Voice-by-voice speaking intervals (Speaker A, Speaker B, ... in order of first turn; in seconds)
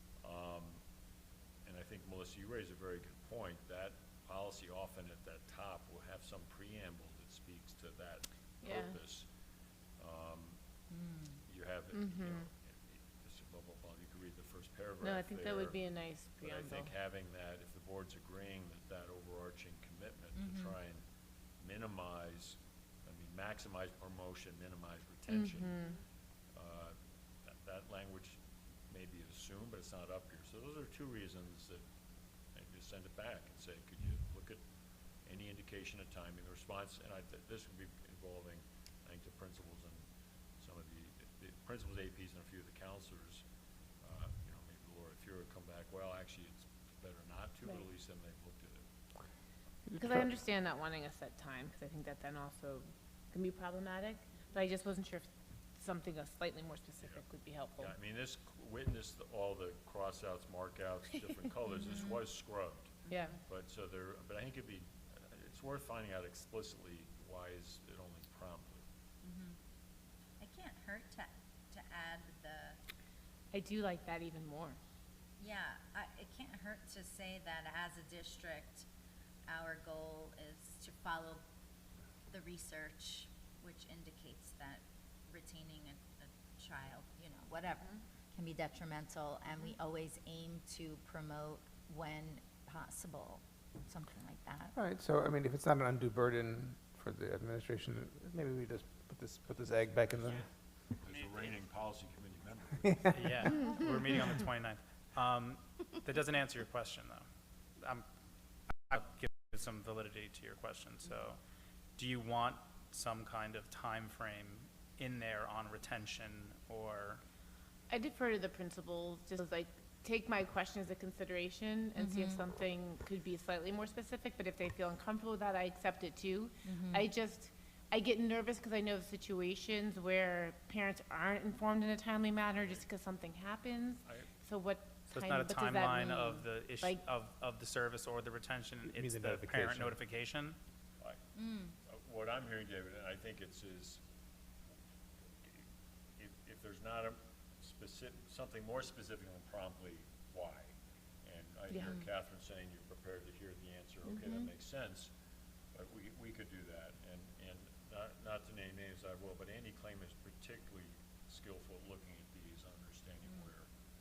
Speaker A: 0.2-0.8, 1.6-9.3, 10.0-10.6, 11.4-15.8, 16.4-21.0, 21.6-25.8, 26.5-27.0, 27.5-28.4, 28.9-31.8, 32.5-34.6, 35.2-40.0, 40.6-43.4, 44.0-48.9, 57.0-57.3, 57.8-68.8, 101.0-103.6, 132.6-132.9, 134.1-134.3, 141.8-144.0, 146.2-155.1, 155.7-163.7
Speaker B: 8.6-9.0, 11.9-12.5, 15.0-16.9, 25.3-26.0, 50.0-58.0, 63.1-63.4, 73.5-74.8, 117.9-137.0, 151.7-151.9
Speaker C: 10.9-11.4, 20.4-20.8, 61.9-62.2, 63.1-63.3, 69.2-69.6, 70.4-72.8, 75.4-78.9, 79.5-81.4, 82.3-94.7, 122.0-122.4, 126.6-127.1, 141.3-141.8, 154.1-154.5
Speaker D: 49.9-50.2, 94.8-100.4, 102.8-103.5, 138.9-140.0
Speaker E: 101.1-101.5, 103.1-107.3, 107.8-108.0, 108.9-111.4, 112.0-117.2, 135.1-140.6